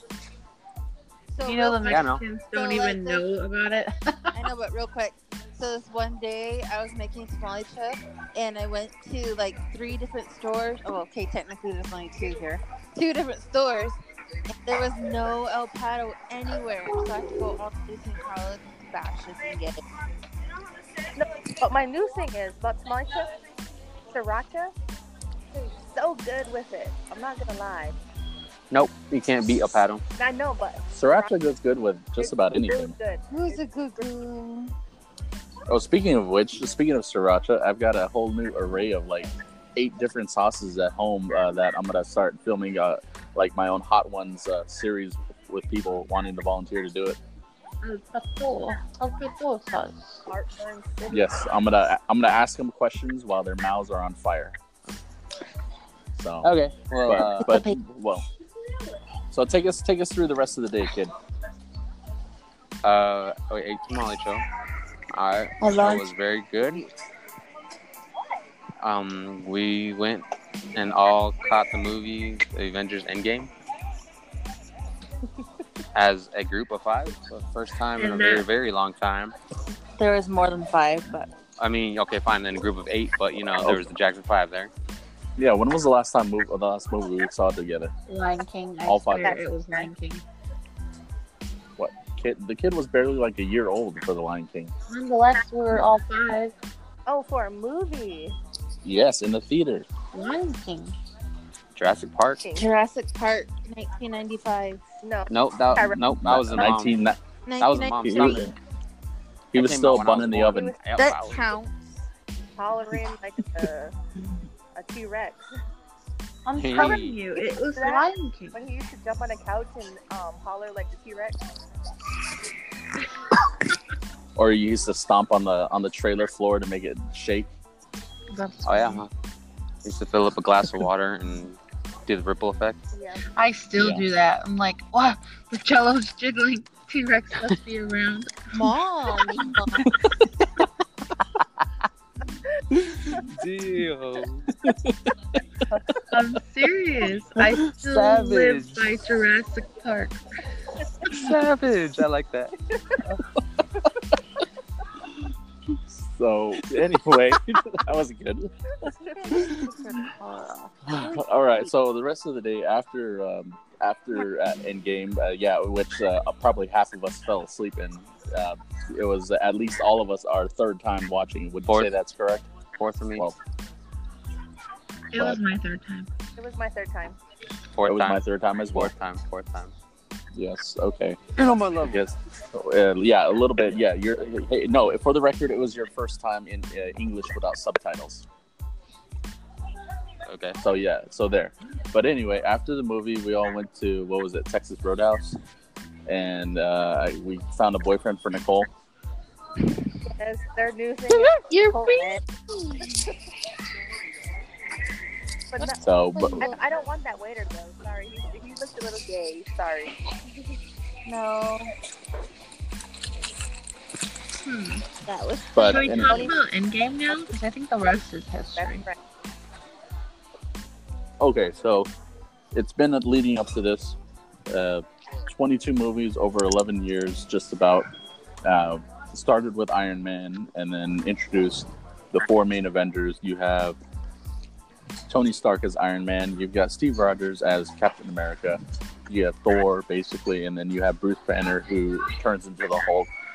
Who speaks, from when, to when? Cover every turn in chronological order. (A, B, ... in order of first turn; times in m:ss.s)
0:01.3-0:03.2 A
0:01.4-0:04.4 B
0:01.9-0:02.2 C
0:04.3-0:19.8 A
0:21.2-0:23.3 D
0:24.1-0:24.7 D
0:25.5-0:28.0 D
0:28.7-0:30.0 C
0:30.2-0:31.4 D
0:30.9-0:32.9 E
0:32.2-0:34.0 D
0:33.3-0:34.7 A
0:35.7-0:47.2 E
0:47.8-0:50.2 B
0:50.3-0:51.4 D
0:51.1-0:54.6 E
0:56.2-0:56.5 E
0:56.4-0:57.5 C
0:57.0-0:58.2 E
0:57.4-0:57.8 A
0:59.3-1:01.1 E
1:02.8-1:04.4 C
1:05.1-1:06.9 C
1:05.6-1:06.1 A
1:08.8-1:13.5 C
1:15.9-1:19.3 C
1:18.0-1:18.4 B
1:20.0-1:21.3 A
1:21.6-1:24.7 C
1:25.4-1:27.9 E
1:28.1-1:30.2 B
1:28.8-1:29.4 E
1:29.2-1:29.9 D
1:31.8-1:34.7 E
1:34.9-1:36.5 B
1:37.1-1:38.4 D
1:38.8-1:39.9 E
1:40.1-1:41.0 B
1:41.7-1:42.4 C
1:42.4-1:42.7 D
1:42.5-1:44.8 A
1:45.0-1:46.1 D
1:45.3-1:47.0 C
1:46.2-1:47.2 E
1:47.4-1:48.5 A
1:47.6-1:48.5 C
1:48.0-1:48.5 E
1:49.5-1:50.7 E
1:49.5-1:51.5 C
1:50.5-1:50.8 D
1:51.0-1:51.7 A
1:52.6-1:53.9 D
1:54.7-1:55.5 D
1:56.4-1:58.6 B
1:56.6-1:57.2 C
1:57.7-2:01.4 D
2:04.4-2:07.5 E
2:08.3-2:09.0 B
2:08.6-2:09.1 C
2:09.8-2:12.8 C
2:12.9-2:13.2 D
2:13.3-2:18.7 B
2:13.8-2:14.0 E
2:18.5-2:19.9 A
2:23.1-2:24.5 C
2:24.6-2:25.0 E
2:26.1-2:30.2 B
2:27.4-2:28.8 C
2:31.1-2:32.5 C
2:35.9-2:39.7 E
2:38.8-2:39.5 D
2:39.3-2:40.7 A
2:40.9-2:52.5 E
2:52.8-2:53.3 C
2:55.1-2:56.1 B
2:55.1-2:55.4 E
2:56.4-2:57.2 D
2:57.8-2:59.7 C
2:57.8-2:58.9 E
3:00.3-3:08.2 E
3:01.4-3:02.0 C
3:10.2-3:10.6 C
3:10.6-3:15.4 E
3:16.1-3:18.7 E
3:20.1-3:22.2 D
3:21.1-3:22.2 B
3:25.5-3:25.8 D
3:25.6-3:26.6 A
3:25.8-3:26.5 E
3:26.4-3:30.0 D
3:31.0-3:31.7 A
3:34.4-3:34.9 B
3:35.0-3:36.4 A
3:35.5-3:36.3 E
3:35.6-3:38.8 B
3:38.6-3:39.0 D
3:41.2-3:41.9 E
3:42.5-3:44.0 E
3:44.5-3:47.9 E
3:48.4-3:53.8 E
3:55.1-4:03.1 E